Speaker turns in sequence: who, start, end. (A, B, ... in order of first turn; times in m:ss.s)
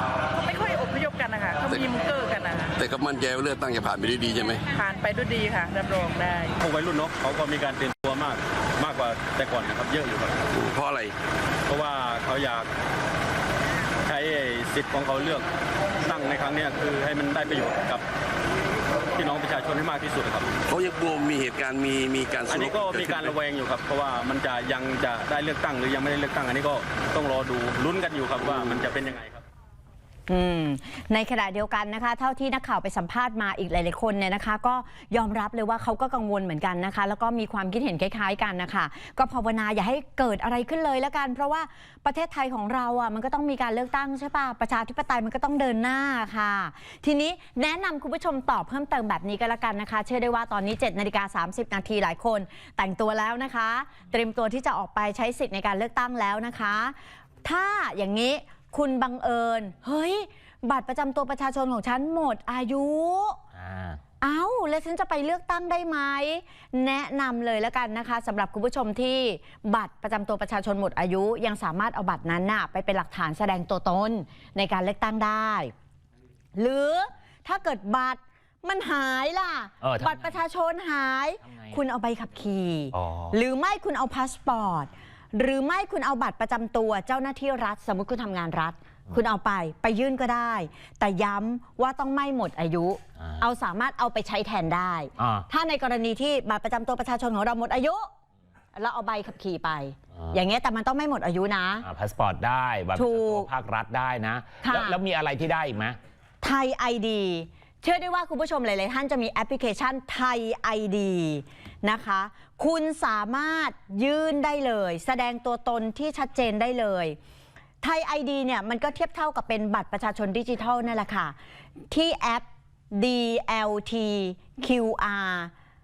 0:00.4-0:02.7 A
0:02.8-0:04.6 B
0:04.7-0:06.5 A
0:06.6-0:10.4 C
0:10.5-0:11.1 B
0:11.7-0:12.7 C
0:14.1-0:15.5 C
0:16.0-0:18.0 C
0:19.2-0:20.5 C
0:20.7-0:23.4 B
0:22.5-0:29.4 C
0:30.3-1:03.4 D
1:03.6-1:04.0 E
1:04.2-1:15.7 D
1:16.6-1:38.1 D
1:19.8-1:20.4 E
1:21.4-1:21.8 E
1:22.9-1:23.4 E
1:35.2-1:35.5 E
1:38.8-1:41.9 D
1:40.2-1:40.4 E
1:41.8-1:46.0 E
1:43.0-1:43.5 D
1:44.6-1:45.0 D
1:46.4-1:57.2 D
1:57.8-2:01.4 D
2:01.9-2:05.5 D